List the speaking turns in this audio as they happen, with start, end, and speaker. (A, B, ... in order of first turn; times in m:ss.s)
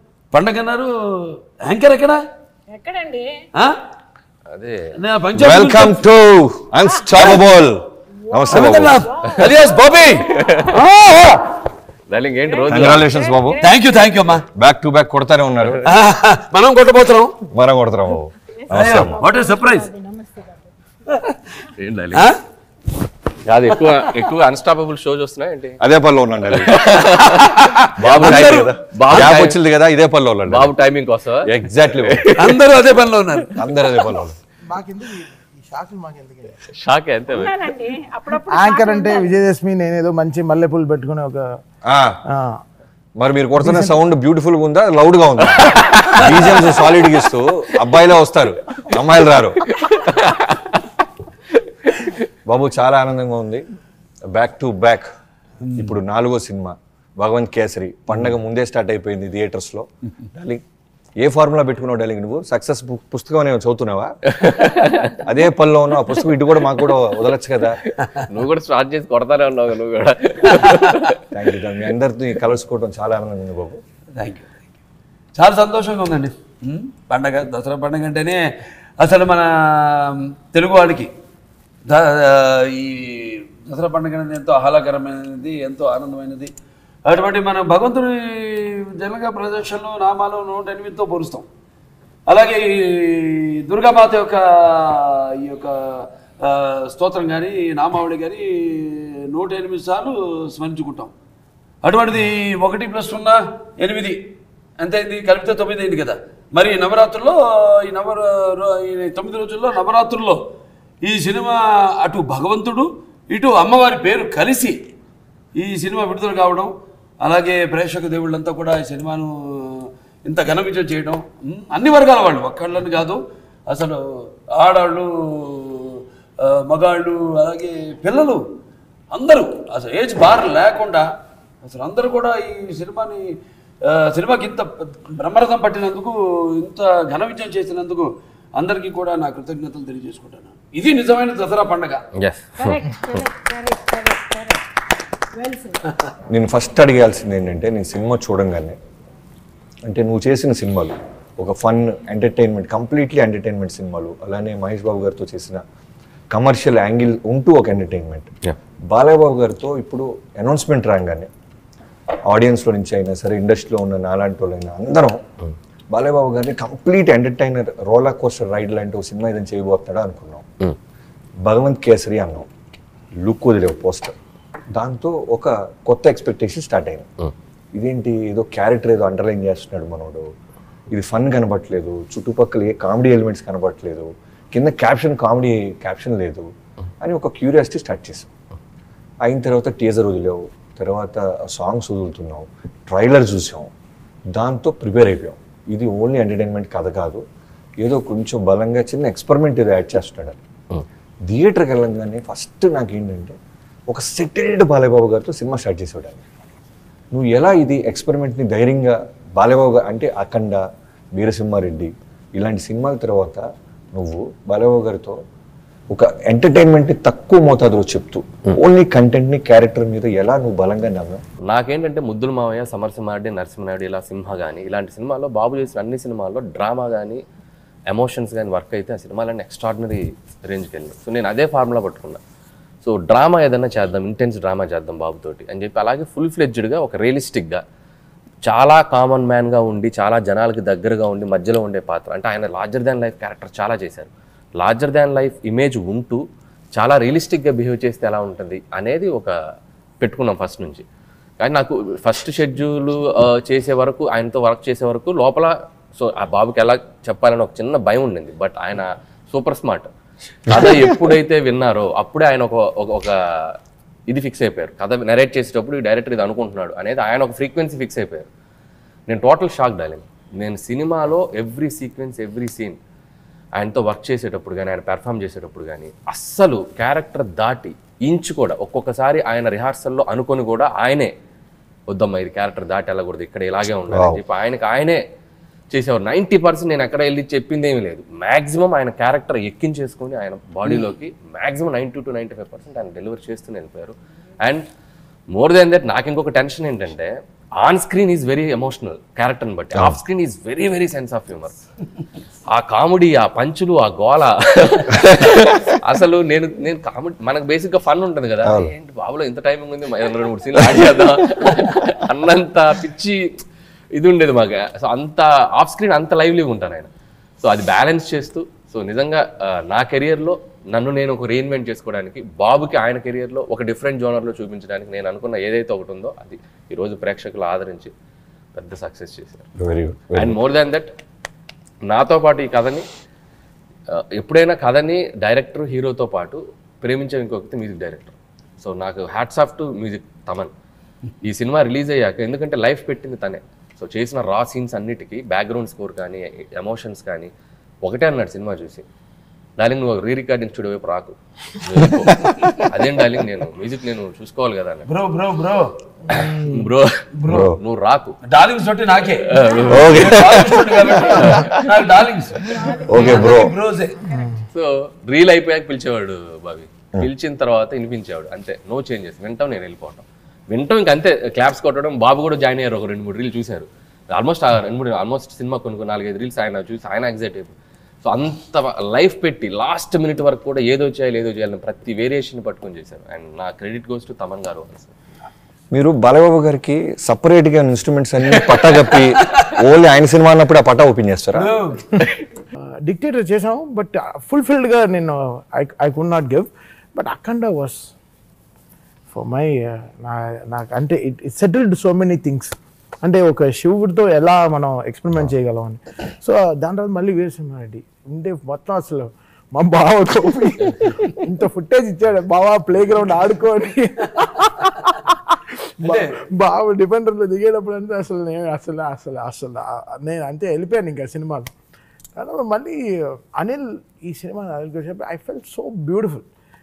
0:00.3-0:02.2 A
0:02.7-0:03.4 B
0:04.5-0:05.0 C
0:04.9-0:06.0 A
0:05.3-0:09.1 D
0:06.8-0:07.3 B
0:07.2-0:07.4 A
0:08.2-0:10.7 B
0:08.5-0:11.5 A
0:10.4-0:10.7 C
0:12.1-0:13.1 C
0:12.4-0:14.0 B
0:12.7-0:13.6 D
0:13.6-0:14.5 A
0:14.5-0:15.9 D
0:15.8-0:17.4 A
0:17.5-0:19.2 D
0:18.6-0:20.7 B
0:18.7-0:19.9 A
0:21.8-0:22.3 C
0:22.1-0:22.4 A
0:23.4-0:25.8 C
0:25.8-0:27.2 D
0:26.5-0:29.6 C
0:27.2-0:29.3 A
0:28.0-0:30.7 D
0:30.5-0:32.6 C
0:31.4-0:32.3 D
0:32.3-0:33.6 A
0:33.5-0:34.4 D
0:34.6-0:36.7 E
0:36.7-0:37.5 C
0:37.3-0:39.4 B
0:38.5-0:41.6 E
0:41.8-0:42.2 D
0:42.3-0:42.6 E
0:43.2-0:49.7 D
0:43.6-0:43.9 E
0:49.7-0:50.7 C
0:52.5-0:53.6 D
0:54.3-0:55.1 D
0:55.6-0:55.9 A
0:55.7-1:00.6 D
1:01.2-1:07.8 D
1:04.3-1:05.2 C
1:08.2-1:11.2 C
1:10.5-1:11.0 A
1:11.3-1:13.8 D
1:14.1-1:14.5 A
1:15.3-1:18.4 A
1:19.0-1:21.1 A
1:21.9-1:26.5 A
1:27.0-1:31.5 A
1:32.3-1:41.1 A
1:41.8-1:44.2 A
1:44.8-1:50.4 A
1:51.0-1:54.8 A
1:55.6-2:08.4 A
2:09.1-2:11.1 A
2:11.6-2:22.0 A
2:22.2-2:23.2 C
2:22.6-2:24.6 B
2:25.3-2:25.9 B
2:26.3-2:28.8 D
2:29.8-2:35.6 D
2:36.3-2:38.3 D
2:38.9-2:41.3 D
2:42.3-2:45.2 D
2:45.9-2:50.5 D
2:51.4-2:52.5 D
2:53.2-2:54.2 D
2:54.7-2:57.1 D
2:57.7-3:00.3 D
3:00.9-3:06.5 D
3:07.0-3:08.3 D
3:09.2-3:13.7 D
3:14.3-3:17.2 D
3:17.8-3:20.4 D
3:21.3-3:23.4 D
3:23.9-3:26.2 D
3:27.1-3:35.2 D
3:35.9-3:41.2 D
3:41.5-3:47.2 C
3:47.9-3:52.2 C
3:52.8-3:57.6 C
3:58.4-4:06.2 C
4:06.7-4:09.3 C
4:10.0-4:10.8 C
4:11.4-4:19.9 C
4:20.5-4:23.6 C
4:20.5-4:20.9 D
4:24.1-4:28.3 C
4:29.1-4:32.8 C
4:33.5-4:41.1 C
4:41.9-4:45.0 C
4:43.9-4:44.2 D
4:45.7-4:54.6 C
4:55.3-5:01.6 C
4:59.7-5:00.0 D
5:02.5-5:13.3 C
5:08.4-5:08.7 D
5:13.9-5:16.9 C
5:17.4-5:27.9 C
5:28.5-5:29.5 C
5:29.6-5:30.4 D
5:30.1-5:30.9 C
5:31.9-5:32.8 C
5:33.9-5:40.5 C
5:41.2-5:47.3 C
5:47.8-5:48.8 C
5:49.6-5:54.9 C
5:54.9-5:55.7 A
5:56.1-5:56.7 E
5:56.1-5:58.2 C
5:57.2-5:57.5 A
5:57.2-5:57.6 D
5:58.2-6:04.0 A
5:59.3-6:00.2 C
5:59.7-6:01.6 D
6:01.1-6:01.6 C
6:02.8-6:03.6 D
6:02.9-6:03.3 C
6:04.1-6:04.4 E
6:04.5-6:17.5 C
6:18.0-6:24.9 C
6:25.7-6:31.5 D
6:29.2-6:29.5 A
6:31.3-6:31.9 A
6:32.8-6:37.9 E
6:39.1-7:01.5 E
6:55.8-6:56.2 A
7:02.2-7:06.2 E